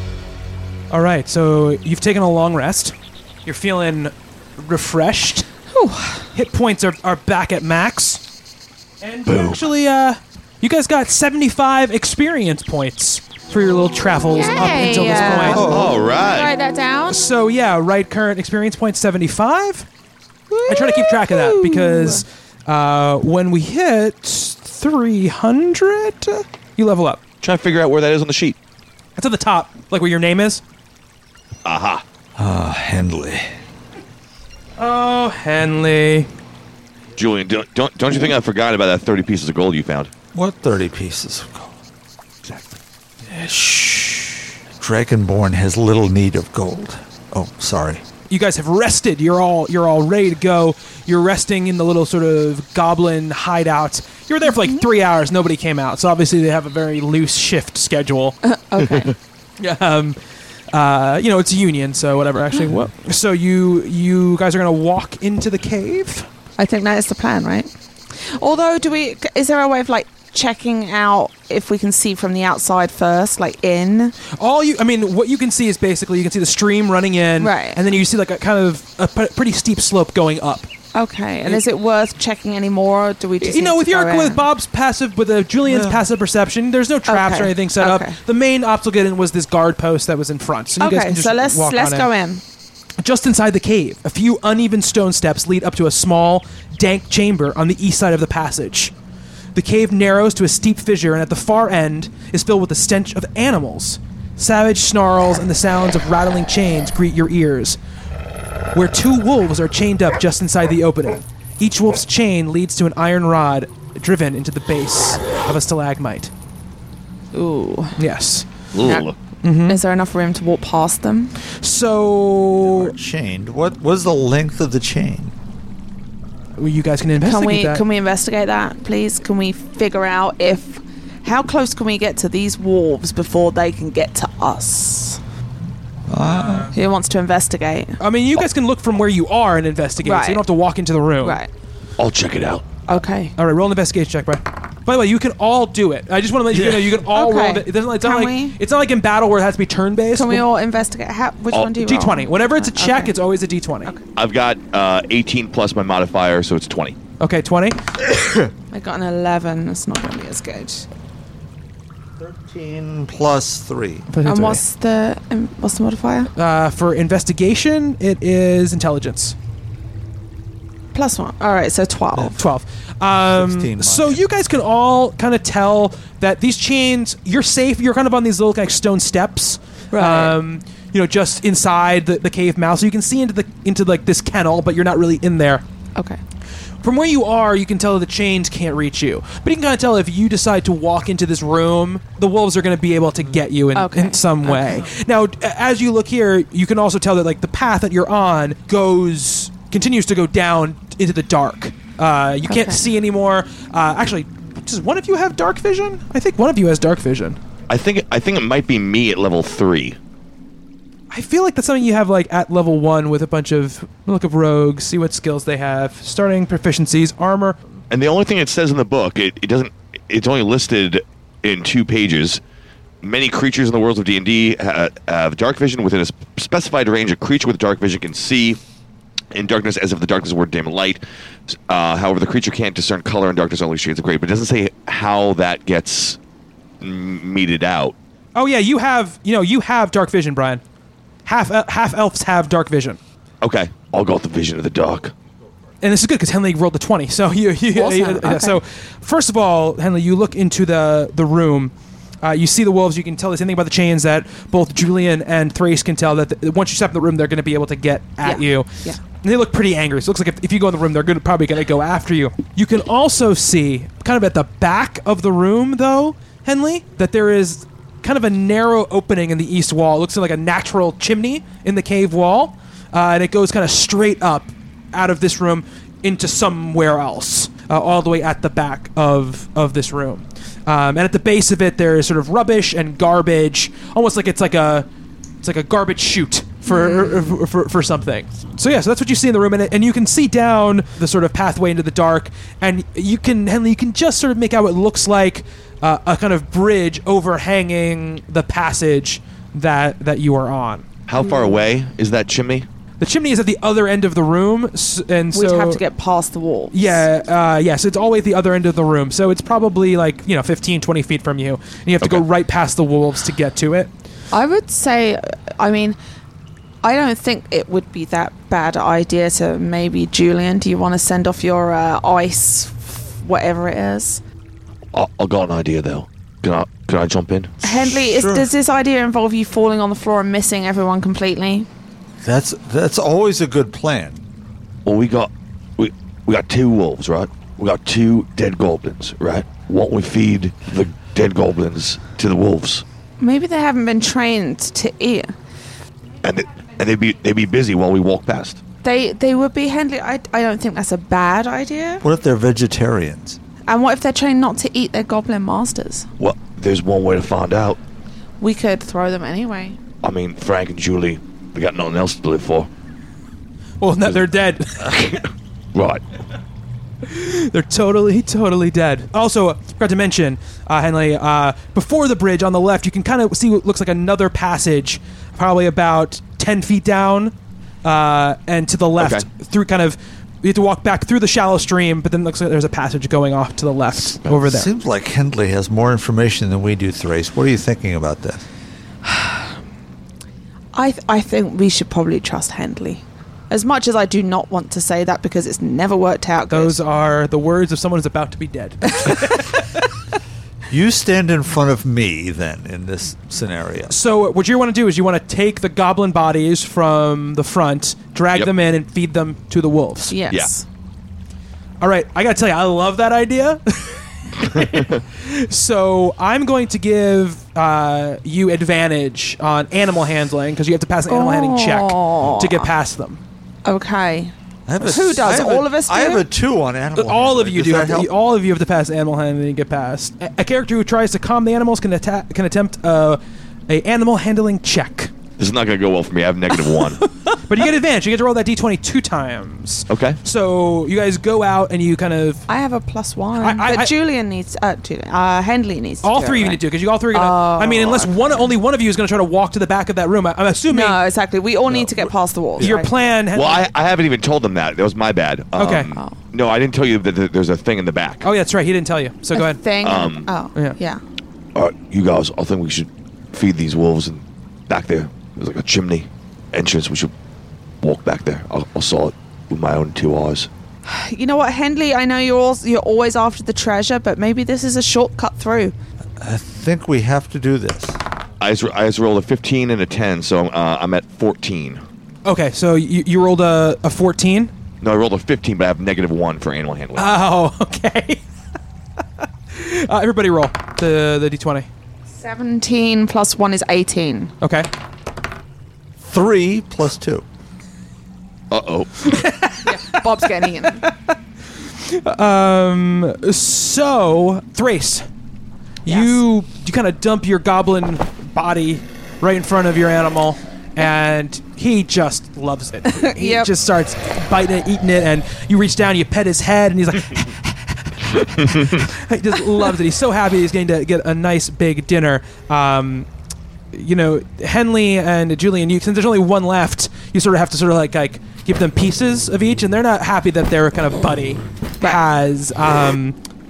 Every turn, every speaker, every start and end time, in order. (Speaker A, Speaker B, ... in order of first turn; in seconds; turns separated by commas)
Speaker A: 0.9-5.5, Speaker B: 5.7-6.3, Speaker A: 6.3-8.2, Speaker A: 9.0-15.7, Speaker C: 9.2-9.6, Speaker B: 14.3-17.2, Speaker D: 15.3-16.1, Speaker C: 15.5-16.5, Speaker A: 17.1-19.9, Speaker B: 20.5-22.2, Speaker A: 20.6-27.2, Speaker C: 27.4-28.6, Speaker A: 29.2-30.6, Speaker C: 31.6-32.0, Speaker D: 32.3-33.5, Speaker A: 34.8-36.3, Speaker C: 37.1-40.1, Speaker D: 40.3-41.7, Speaker D: 43.2-48.0, Speaker A: 48.3-58.4, Speaker B: 58.4-59.1, Speaker A: 59.6-60.2, Speaker A: 60.7-66.3, Speaker B: 66.6-74.2, Speaker A: 74.4-80.7, Speaker B: 77.4-77.8, Speaker B: 80.9-84.5, Speaker A: 83.4-92.1, Speaker D: 85.7-86.0, Speaker B: 87.1-88.2, Speaker B: 90.8-92.4, Speaker A: 93.0-98.9, Speaker A: 99.5-107.8, Speaker A: 108.7-116.3, Speaker B: 117.3-118.0, Speaker A: 118.0-118.5, Speaker C: 118.7-119.2, Speaker A: 119.4-119.8, Speaker B: 119.7-121.3, Speaker A: 121.6-122.9, Speaker D: 122.6-125.3, Speaker A: 126.6-127.8, Speaker B: 127.2-135.2, Speaker D: 136.1-136.7, Speaker A: 136.2-136.8, Speaker B: 136.7-138.0, Speaker A: 138.0-141.4, Speaker B: 140.0-140.4, Speaker B: 141.2-141.5, Speaker C: 142.0-142.7, Speaker B: 142.9-143.3, Speaker A: 143.4-150.4, Speaker D: 146.5-146.9, Speaker B: 147.0-148.6, Speaker B: 150.1-153.1, Speaker A: 151.7-153.9, Speaker C: 154.2-157.0, Speaker A: 157.2-157.8, Speaker D: 158.0-158.5, Speaker B: 158.7-160.9, Speaker D: 162.2-164.1, Speaker A: 164.1-164.6, Speaker B: 164.2-166.3, Speaker A: 166.3-169.3, Speaker B: 170.9-172.4, Speaker A: 172.3-185.6, Speaker D: 173.2-174.2, Speaker B: 179.9-180.3, Speaker B: 185.9-186.2, Speaker A: 186.8-207.4, Speaker B: 193.7-194.8, Speaker B: 202.5-202.9, Speaker C: 207.7-210.0, Speaker A: 211.1-217.6, Speaker C: 217.9-222.4, Speaker C: 223.0-228.6, Speaker C: 229.3-236.2, Speaker C: 236.8-237.9, Speaker A: 238.3-240.6, Speaker A: 241.2-243.0, Speaker C: 243.4-245.1, Speaker A: 245.8-284.9, Speaker B: 247.7-248.6, Speaker B: 258.2-259.0, Speaker A: 285.4-300.9, Speaker B: 286.6-287.3, Speaker C: 301.1-302.7, Speaker B: 301.2-301.6, Speaker A: 303.0-305.8, Speaker B: 305.3-307.0, Speaker A: 306.7-313.9, Speaker B: 314.3-316.0, Speaker B: 316.8-324.2, Speaker C: 324.9-327.6, Speaker B: 327.6-331.7, Speaker D: 327.6-328.5, Speaker D: 332.2-334.2, Speaker C: 334.8-342.8, Speaker B: 343.2-345.3, Speaker C: 346.2-348.6, Speaker B: 348.8-352.0, Speaker D: 352.0-353.4, Speaker B: 353.7-356.1, Speaker C: 356.2-357.8, Speaker B: 358.4-359.8, Speaker C: 360.0-362.7, Speaker A: 363.8-365.0, Speaker C: 364.8-366.0, Speaker A: 367.0-384.7, Speaker C: 379.0-379.2, Speaker D: 384.4-388.4, Speaker B: 389.0-389.5, Speaker B: 390.7-396.8, Speaker A: 396.5-399.6, Speaker B: 399.0-399.5, Speaker D: 400.7-403.9, Speaker A: 403.9-410.2, Speaker B: 410.1-410.6, Speaker A: 411.8-423.2, Speaker C: 414.4-415.0, Speaker B: 421.1-422.7, Speaker B: 423.6-426.2, Speaker D: 424.7-428.1, Speaker A: 426.9-435.1, Speaker C: 435.4-437.0, Speaker A: 437.3-442.4, Speaker C: 439.9-440.2, Speaker B: 442.5-446.6, Speaker A: 443.4-443.9, Speaker A: 446.0-451.0, Speaker B: 447.1-448.5, Speaker B: 450.7-453.1, Speaker D: 451.7-452.1, Speaker A: 452.6-453.7, Speaker C: 453.3-458.2, Speaker A: 455.6-455.9, Speaker A: 458.2-459.6, Speaker B: 459.3-461.0, Speaker C: 459.8-460.3, Speaker C: 461.5-467.1, Speaker C: 467.8-470.5, Speaker B: 470.8-475.7, Speaker D: 476.2-478.0, Speaker C: 478.4-481.8, Speaker A: 482.2-484.5, Speaker C: 484.8-487.1, Speaker A: 486.9-488.2, Speaker A: 489.5-491.7, Speaker B: 492.1-494.3, Speaker A: 494.4-494.7, Speaker D: 496.0-497.2, Speaker C: 498.5-499.2, Speaker A: 499.0-505.1, Speaker B: 499.6-500.8, Speaker A: 505.8-523.1, Speaker B: 505.9-506.2, Speaker B: 512.9-513.5, Speaker C: 518.4-518.7, Speaker A: 523.7-533.1